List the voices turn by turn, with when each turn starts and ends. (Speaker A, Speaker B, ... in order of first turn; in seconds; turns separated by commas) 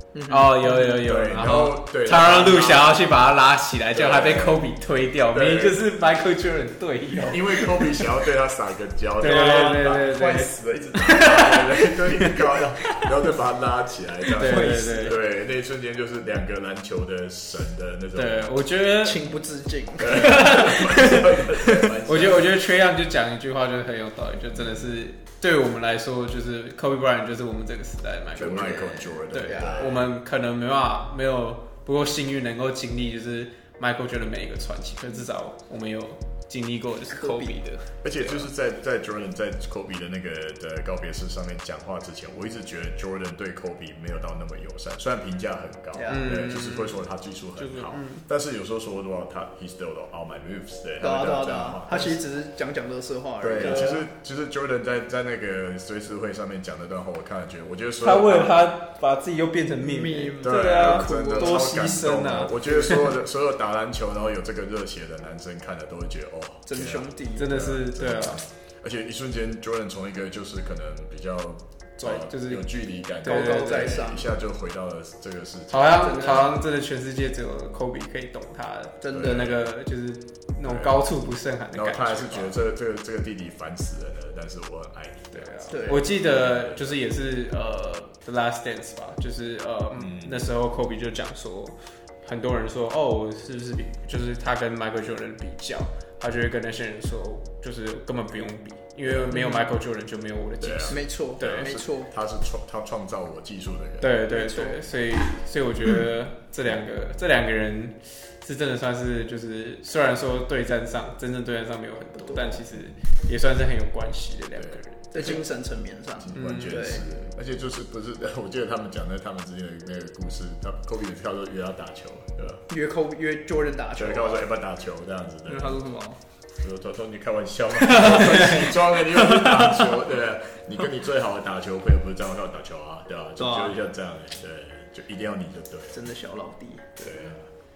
Speaker A: 0.1-1.0, Speaker B: 0.3-8.1, Speaker C: 0.8-3.3, Speaker C: 3.9-4.7, Speaker C: 5.3-5.8, Speaker C: 7.3-18.6, Speaker B: 9.2-12.4, Speaker A: 9.2-10.0, Speaker B: 14.4-15.2, Speaker A: 14.4-15.2, Speaker B: 18.1-19.2, Speaker A: 19.0-21.9, Speaker C: 20.0-22.7, Speaker B: 20.1-20.9, Speaker B: 22.1-38.5, Speaker C: 24.5-25.0, Speaker C: 28.3-30.1, Speaker A: 28.6-30.0, Speaker A: 37.1-37.6, Speaker C: 38.0-52.2, Speaker A: 45.9-46.5, Speaker B: 46.1-47.0, Speaker B: 47.5-48.2, Speaker A: 51.0-54.0, Speaker C: 53.4-58.8, Speaker B: 53.6-54.0, Speaker B: 58.0-63.2, Speaker A: 59.8-61.7, Speaker C: 60.4-76.7, Speaker A: 66.7-67.7, Speaker B: 67.4-68.4, Speaker B: 72.0-74.1, Speaker A: 73.2-74.3, Speaker B: 75.7-82.5, Speaker A: 76.0-76.5, Speaker A: 79.0-79.5, Speaker C: 79.1-79.7, Speaker C: 80.6-81.1, Speaker C: 81.7-87.0, Speaker B: 85.3-101.6, Speaker A: 85.7-86.1, Speaker C: 90.0-90.5, Speaker C: 99.0-99.4, Speaker A: 99.3-99.7, Speaker C: 100.6-104.2, Speaker A: 100.9-102.1, Speaker B: 104.0-115.4, Speaker A: 104.3-104.8, Speaker A: 112.2-112.7, Speaker C: 114.5-115.4, Speaker A: 115.1-117.3, Speaker C: 116.2-122.7, Speaker B: 116.3-117.0, Speaker A: 122.7-124.5, Speaker C: 124.0-125.8, Speaker A: 125.5-126.2, Speaker C: 126.6-136.0, Speaker B: 128.2-128.7, Speaker A: 133.4-133.8, Speaker A: 135.9-137.4, Speaker C: 137.0-137.5